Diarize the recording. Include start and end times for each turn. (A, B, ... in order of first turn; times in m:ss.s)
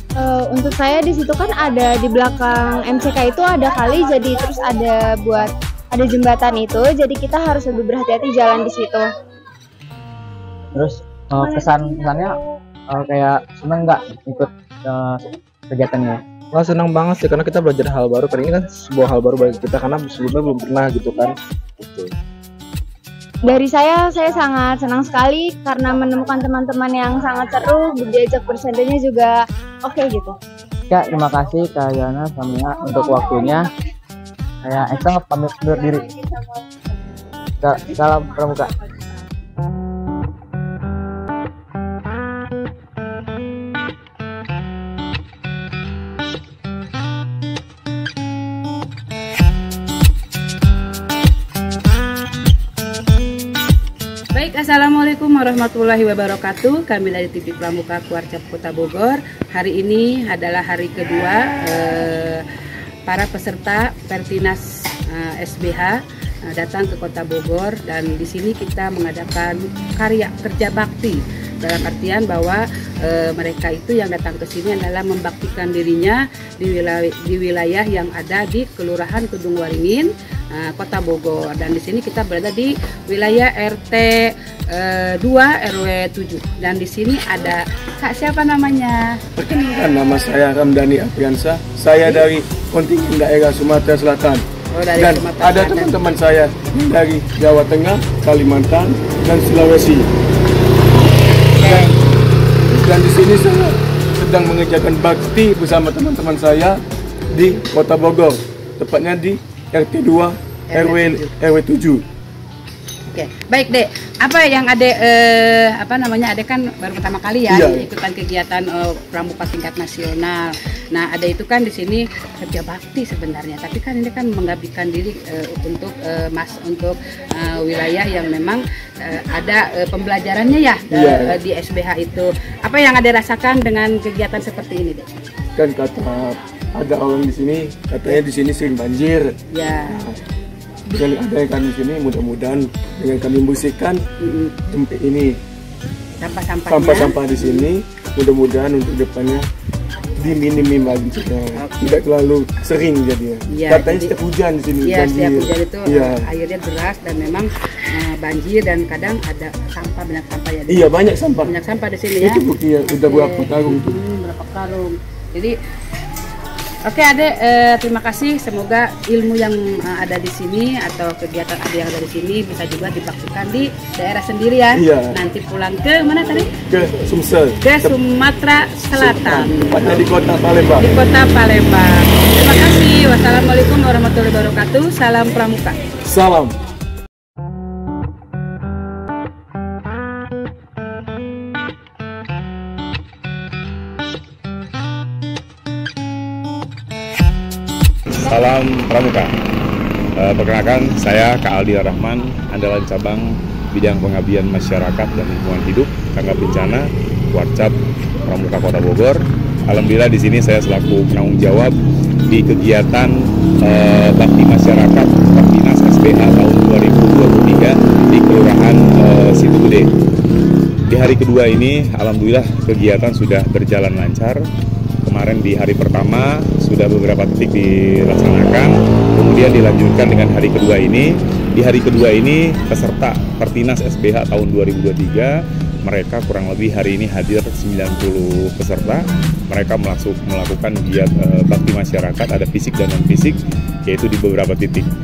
0:00.2-0:09.1 A
0:10.7-0:12.4 B
0:12.9-0:16.2 B
0:16.5-0:22.1 C
0:23.5-0:30.4 A
0:30.9-0:33.7 B
0:34.6-0:36.0 B
0:37.6-0:38.7 B
0:54.3-1:02.4 D
1:03.1-1:06.0 D
1:06.5-1:29.0 D
1:29.4-1:34.4 E
1:34.7-1:35.9 D
1:35.0-1:40.1 E
1:41.6-1:41.9 D
1:41.6-1:41.9 E
1:42.7-1:46.8 E
1:47.3-1:52.0 E
1:50.7-1:51.3 D
1:53.1-2:15.1 D
1:57.5-1:57.9 E
2:10.9-2:11.4 E
2:15.6-2:19.3 E
2:19.5-2:19.9 D
2:19.9-2:20.2 E
2:20.9-2:24.0 E
2:24.2-2:24.5 D
2:24.7-2:25.3 E
2:26.2-2:27.6 D
2:26.7-2:29.4 E
2:30.2-2:36.2 E
2:33.5-2:34.2 D
2:34.8-2:40.9 D
2:40.7-2:41.6 E
2:41.4-2:45.5 D
2:42.2-2:44.0 E
2:46.8-2:56.5 D
2:54.8-2:55.1 E
2:56.7-2:58.0 E
2:57.6-3:00.0 D
2:58.8-3:00.9 E
3:00.8-3:05.8 D
3:06.0-3:06.5 E
3:18.2-3:19.3 F
3:20.2-3:27.7 F
3:28.2-3:31.7 F
3:32.3-3:39.9 F
3:40.9-3:44.4 F
3:45.0-4:04.9 F